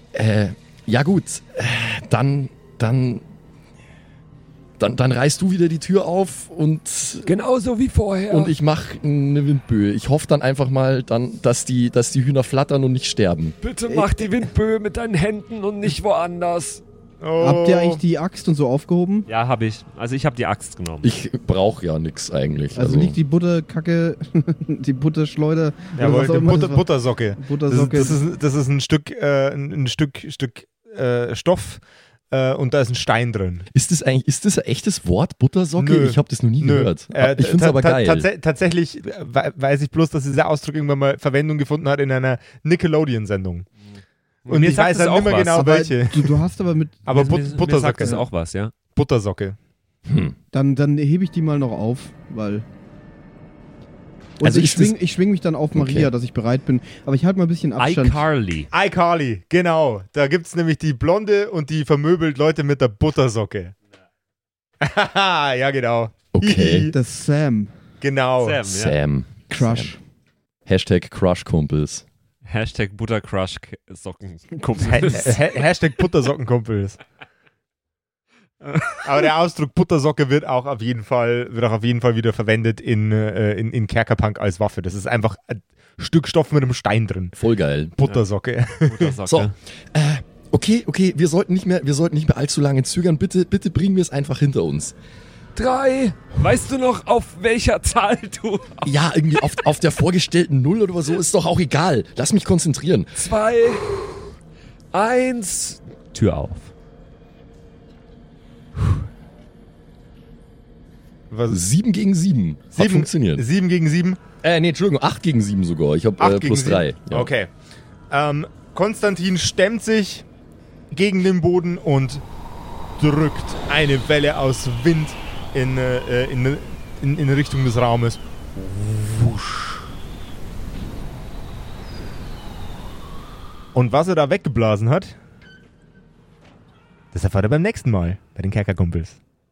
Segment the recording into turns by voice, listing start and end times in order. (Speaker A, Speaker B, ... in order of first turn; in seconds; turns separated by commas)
Speaker A: 0.1-3.3, Speaker A: 4.8-7.3, Speaker B: 7.2-8.5, Speaker A: 8.3-13.6, Speaker B: 13.6-16.8, Speaker C: 17.2-18.0, Speaker D: 17.4-19.3, Speaker E: 19.3-21.1, Speaker A: 21.0-23.2, Speaker D: 22.7-28.2, Speaker C: 25.9-33.6, Speaker A: 33.7-38.3, Speaker C: 35.8-43.6, Speaker E: 44.5-45.7, Speaker C: 44.5-46.4, Speaker D: 45.5-47.4, Speaker C: 47.0-48.2, Speaker E: 47.1-48.7, Speaker C: 48.9-49.6, Speaker A: 50.0-50.4, Speaker D: 50.5-52.6, Speaker D: 54.4-58.2, Speaker A: 54.4-54.9, Speaker A: 55.8-56.1, Speaker E: 57.8-58.7, Speaker C: 58.7-63.7, Speaker C: 64.8-66.9, Speaker A: 66.3-66.9, Speaker D: 66.9-67.7, Speaker C: 68.0-68.6, Speaker E: 68.4-69.0, Speaker A: 68.7-69.9, Speaker D: 69.5-70.0, Speaker A: 70.7-72.0, Speaker E: 72.5-75.5, Speaker C: 74.8-77.0, Speaker C: 78.9-87.3, Speaker A: 87.4-87.9, Speaker C: 88.0-89.1, Speaker E: 88.8-89.5, Speaker A: 89.2-94.9, Speaker B: 95.5-98.9, Speaker A: 98.8-103.2, Speaker B: 103.2-103.9, Speaker B: 104.9-105.8, Speaker E: 106.1-106.7, Speaker C: 111.3-111.6, Speaker A: 111.5-113.4, Speaker C: 112.7-114.2, Speaker A: 114.4-117.3, Speaker C: 116.2-117.5, Speaker C: 118.1-120.2, Speaker C: 120.9-122.2, Speaker C: 123.0-128.2, Speaker C: 133.7-135.1, Speaker C: 137.1-139.2